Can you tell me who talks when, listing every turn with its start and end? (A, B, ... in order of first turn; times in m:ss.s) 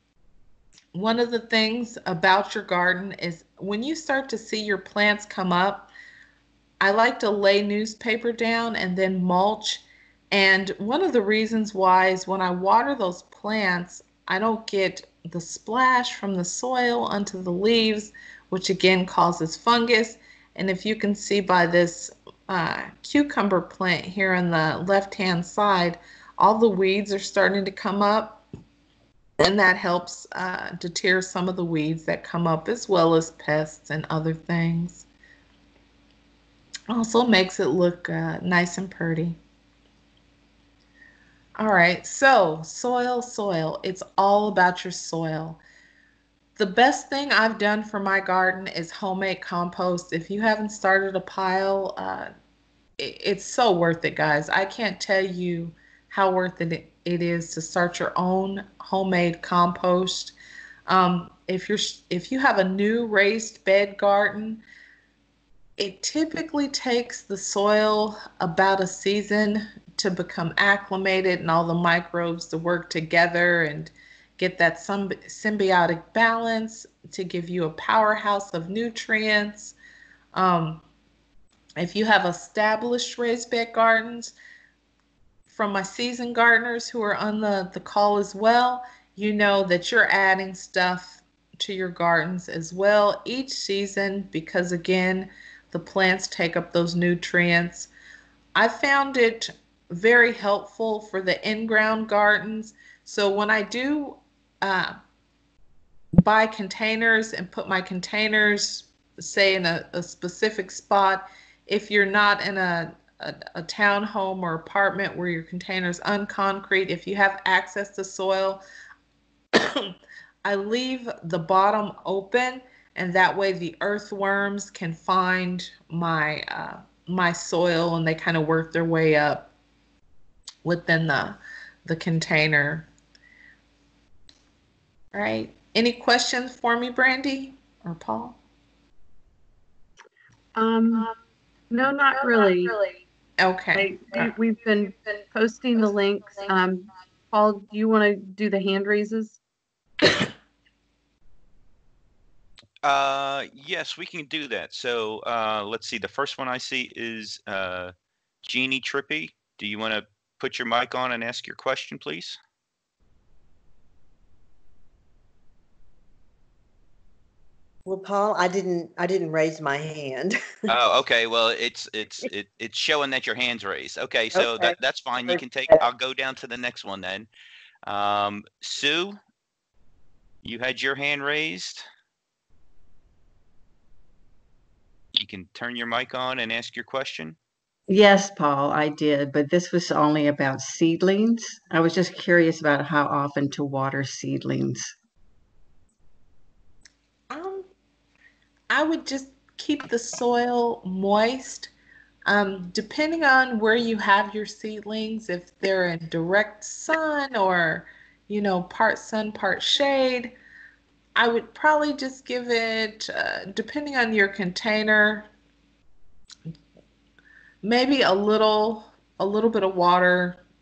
0:00.9-0:05.9 A
0:06.8-0:28.4 A
0:29.4-0:35.0 A
0:36.9-0:39.4 A
0:41.6-0:45.6 A
0:46.6-0:52.3 A
0:53.0-1:00.3 A
1:00.9-1:04.6 A
1:05.8-1:19.7 A
1:20.3-1:20.8 A
1:21.8-1:24.3 A
1:25.5-1:37.9 A
1:38.5-1:45.0 A
1:46.2-1:58.6 A
1:59.5-2:09.5 A
2:10.6-2:12.9 A
2:15.1-2:18.4 A
2:20.6-2:21.1 B
2:21.7-2:22.8 B
2:23.4-2:24.3 A
2:23.7-2:29.4 B
2:32.8-2:42.4 C
2:47.8-2:50.5 D
2:50.7-2:57.3 C
2:54.3-2:55.8 D
2:57.8-2:59.2 C
3:00.4-3:01.8 C
3:05.1-3:07.4 C
3:07.9-3:14.9 E
3:17.3-3:17.7 A
3:18.7-3:21.7 A
3:22.2-3:30.3 A
3:31.1-3:35.3 A
3:37.6-3:40.4 A